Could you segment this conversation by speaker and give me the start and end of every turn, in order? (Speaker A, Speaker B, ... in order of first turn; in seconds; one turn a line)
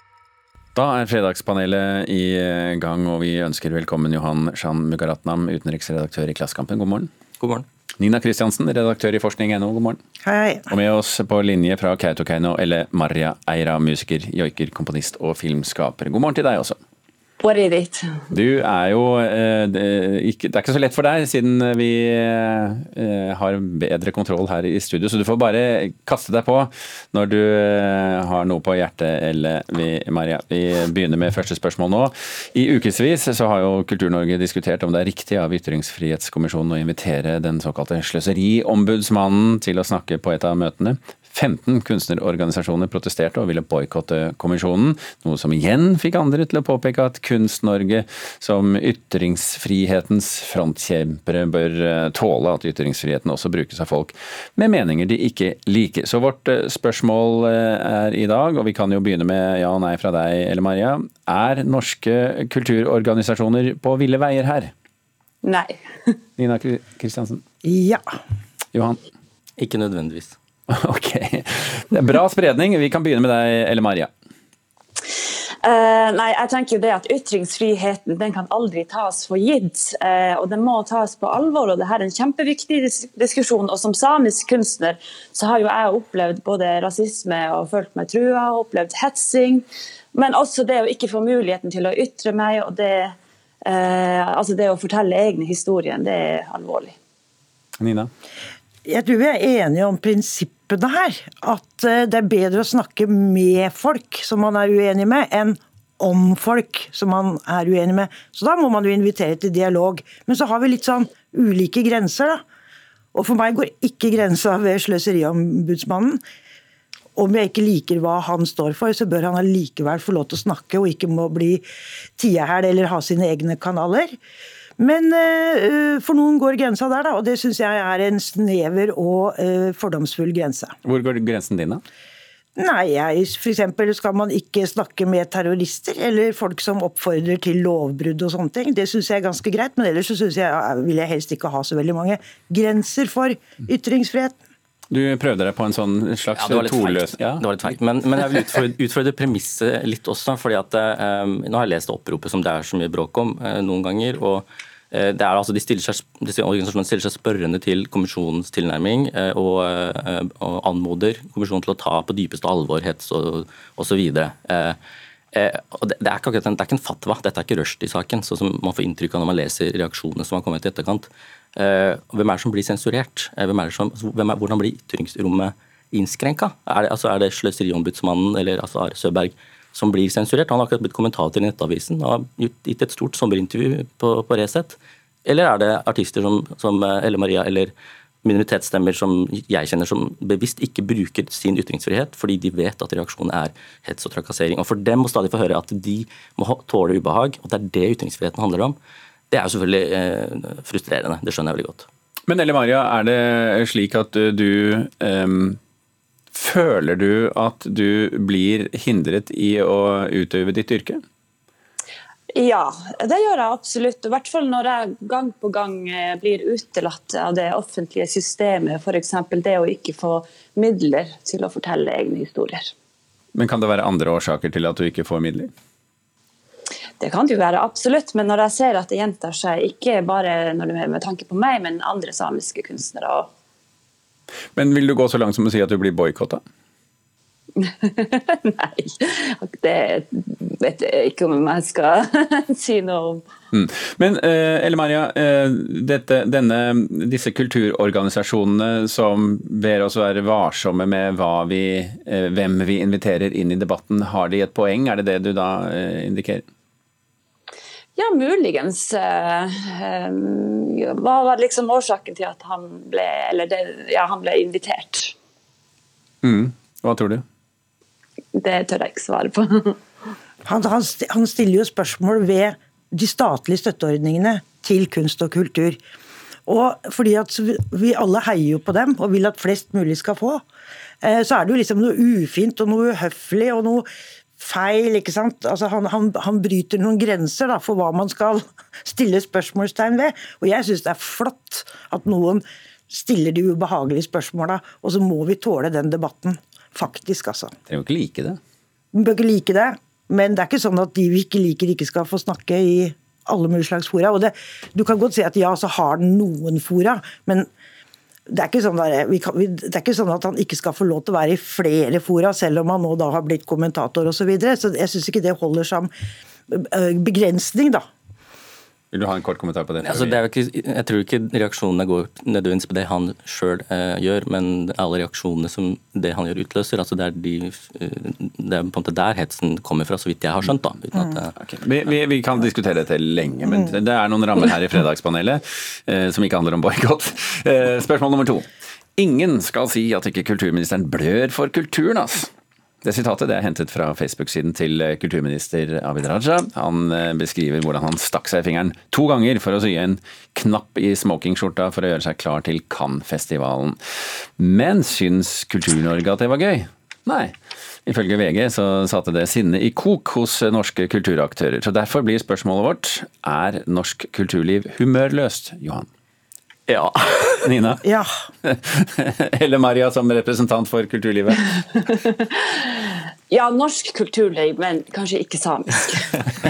Speaker A: 0.7-7.1
Speaker B: 7.4-7.6
Speaker A: 8.0-10.0
Speaker C: 10.2-10.6
Speaker A: 10.7-16.8
Speaker D: 17.4-18.2
Speaker A: 18.3-64.7
Speaker D: 65.4-66.1
Speaker A: 66.4-67.4
Speaker C: 67.6-68.0
Speaker A: 68.7-69.0
Speaker B: 69.6-70.3
Speaker A: 70.7-74.1
Speaker D: 75.6-93.1
Speaker D: 93.6-96.9
Speaker A: 97.8-98.1
Speaker C: 98.8-112.4
Speaker C: 113.1-116.2
Speaker C: 117.2-121.6
Speaker C: 122.2-124.2
Speaker C: 124.8-130.7
Speaker A: 130.8-131.8
Speaker C: 132.6-144.3
Speaker A: 144.9-147.4
Speaker B: 146.3-164.8
Speaker B: 165.3-187.7
Speaker B: 188.2-198.8
Speaker B: 199.3-201.9
Speaker A: 202.3-205.6
Speaker A: 206.3-211.0
Speaker D: 212.3-222.7
Speaker A: 223.3-225.5
Speaker D: 227.0-233.3
Speaker A: 234.5-236.4
Speaker D: 237.6-243.2
Speaker A: 243.5-256.4
Speaker D: 257.9-265.1
Speaker A: 266.2-267.2
Speaker D: 268.3-269.8
Speaker C: 270.4-275.8
Speaker C: 276.4-280.4
Speaker C: 281.0-283.9
Speaker C: 284.4-297.5
Speaker A: 297.7-298.4
Speaker C: 298.9-307.5
Speaker C: 308.3-315.9
Speaker C: 316.5-317.8
Speaker A: 318.9-320.2
Speaker B: 319.8-331.3
Speaker A: 331.4-342.3
Speaker A: 342.8-353.8
Speaker A: 354.4-357.3
Speaker A: 357.9-365.9
Speaker B: 366.7-367.5
Speaker A: 367.4-367.8
Speaker C: 367.8-368.1
Speaker A: 368.4-371.5
Speaker D: 371.9-376.3